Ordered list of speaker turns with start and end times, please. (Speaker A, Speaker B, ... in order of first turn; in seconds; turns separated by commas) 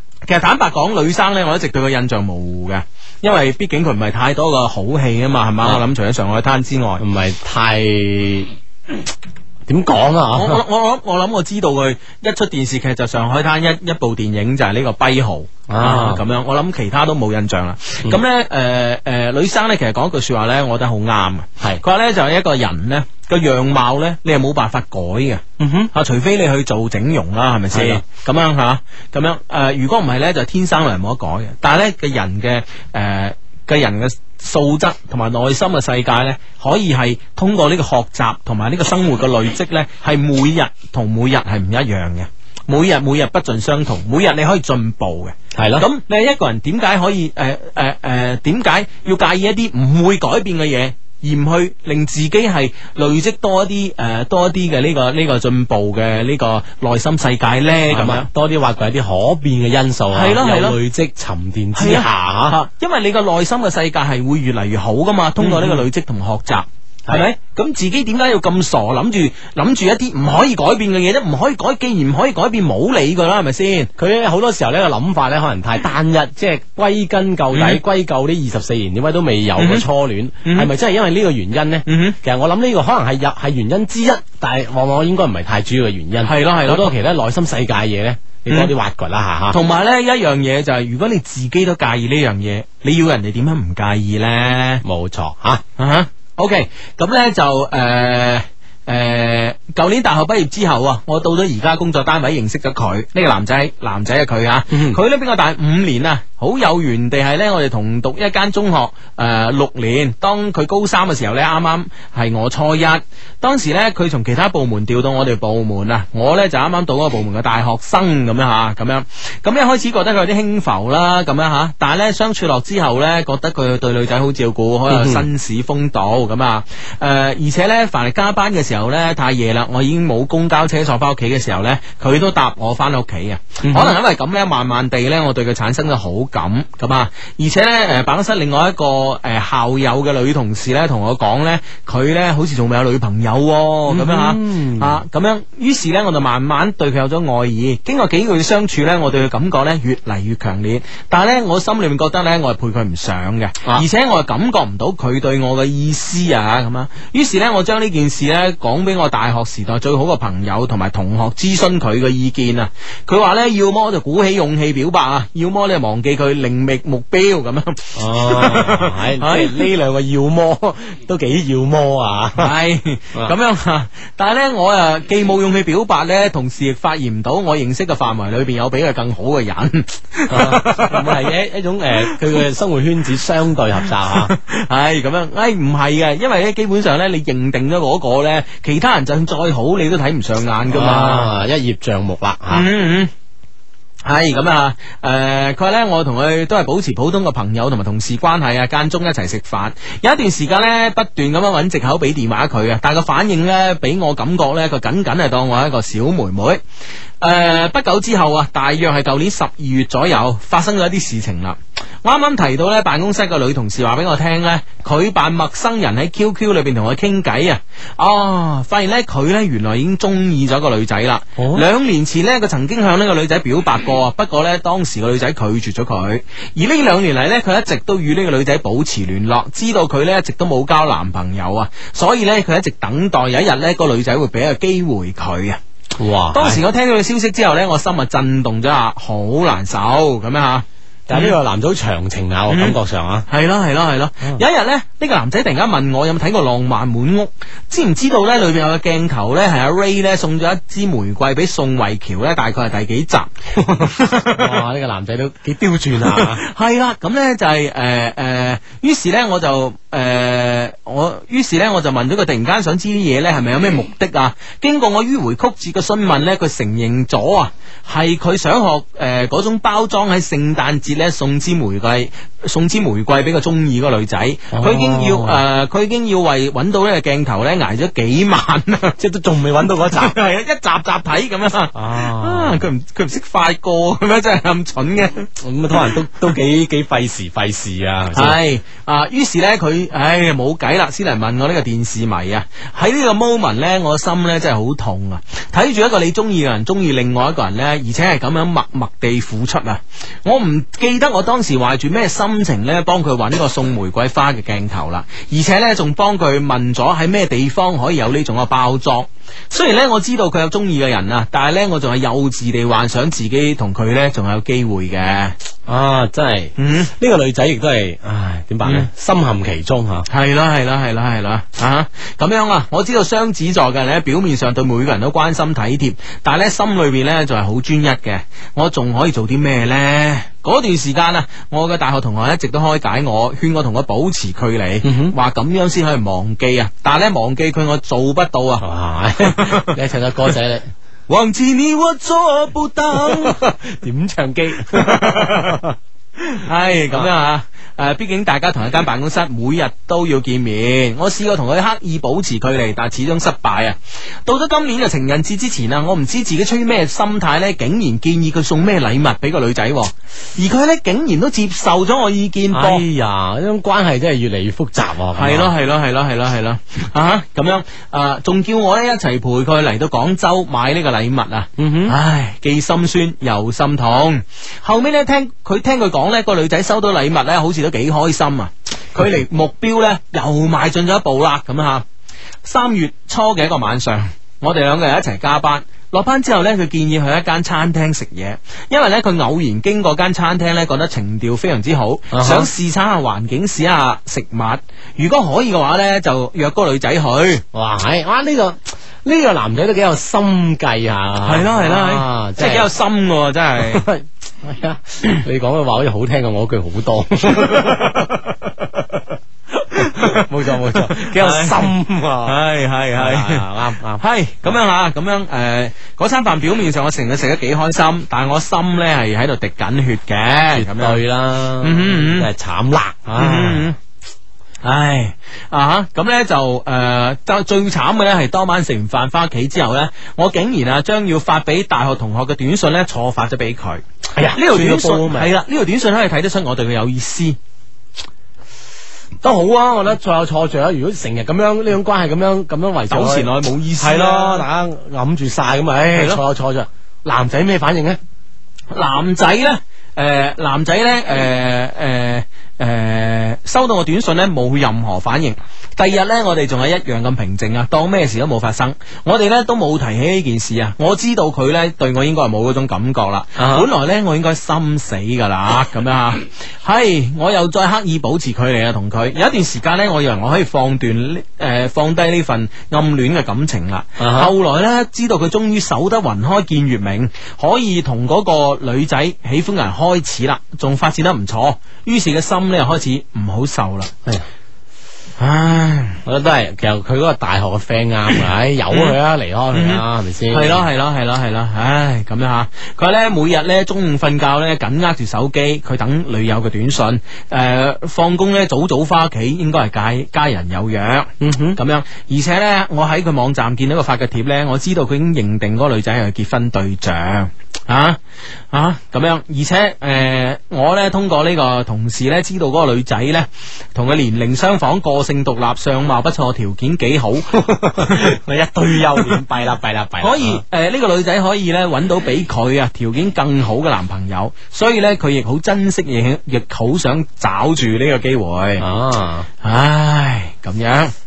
Speaker A: 0.2-7.0, Speaker B: 7.0-8.5, Speaker B: 9.7-10.6, Speaker A: 10.3-58.3, Speaker B: 15.7-16.2, Speaker B: 25.6-25.9, Speaker B: 27.7-28.0, Speaker B: 45.5-45.9, Speaker B: 57.9-62.5, Speaker A: 60.1-60.8, Speaker A: 61.7-73.9, Speaker B: 65.4-65.8, Speaker B: 74.0-89.6, Speaker A: 77.5-77.8, Speaker A: 79.6-79.9, Speaker A: 80.4-80.7, Speaker A: 81.8-82.2, Speaker A: 86.2-86.9, Speaker A: 88.5-88.7, Speaker A: 89.5-94.8, Speaker B: 94.8-95.6, Speaker A: 95.8-169.7, Speaker B: 104.7-105.0, Speaker B: 124.9-125.2, Speaker B: 133.6-134.0, Speaker B: 143.9-145.0, Speaker B: 167.9-172.5, Speaker A: 172.4-181.2, Speaker B: 180.3-184.3, Speaker A: 184.1-191.3, Speaker B: 190.7-192.7, Speaker A: 192.5-193.1, Speaker A: 194.0-206.6, Speaker A: 207.2-235.6, Speaker B: 221.4-221.7, Speaker B: 236.0-236.6, Speaker A: 236.3-241.4, Speaker B: 241.1-243.2, Speaker A: 242.5-242.8, Speaker A: 243.3-254.6, Speaker B: 254.2-256.4, Speaker A: 256.0-278.9, Speaker B: 274.5-275.4, Speaker B: 279.0-280.1, Speaker A: 279.9-285.3, Speaker B: 281.7-282.6, Speaker B: 285.4-288.4, Speaker A: 288.1-315.4, Speaker B: 315.7-320.1, Speaker A: 316.6-316.9, Speaker A: 318.6-318.9, Speaker A: 320.1-338.6, Speaker B: 334.8-335.1, Speaker B: 338.6-340.7, Speaker A: 339.2-339.7, Speaker A: 341.1-343.3, Speaker B: 343.0-345.7, Speaker A: 344.7-345.6, Speaker A: 346.2-362.8, Speaker B: 362.5-365.5, Speaker A: 365.1-381.8, Speaker B: 371.6-371.9, Speaker A: 382.4-397.4, Speaker B: 392.1-392.5, Speaker B: 397.5-402.7, Speaker A: 401.2-403.8, Speaker B: 403.7-408.0, Speaker A: 407.4-408.1, Speaker A: 409.8-411.7, Speaker B: 409.8-412.4, Speaker A: 412.2-413.4, Speaker B: 412.9-414.5, Speaker A: 414.0-421.0, Speaker B: 420.5-423.7, Speaker A: 421.6-422.3, Speaker A: 423.1-423.8, Speaker A: 424.6-437.4, Speaker B: 434.1-435.3, Speaker B: 439.2-443.3, Speaker A: 442.9-444.4, Speaker B: 443.8-448.0, Speaker A: 445.9-446.2, Speaker A: 448.7-483.9, Speaker B: 463.4-463.7, Speaker B: 474.0-474.3, Speaker A: 485.2-486.0, Speaker B: 486.0-490.6, Speaker A: 489.5-508.0, Speaker B: 501.2-501.6, Speaker A: 508.5-518.1, Speaker B: 517.4-520.4, Speaker A: 520.0-528.6, Speaker B: 528.6-529.3, Speaker A: 529.4-530.9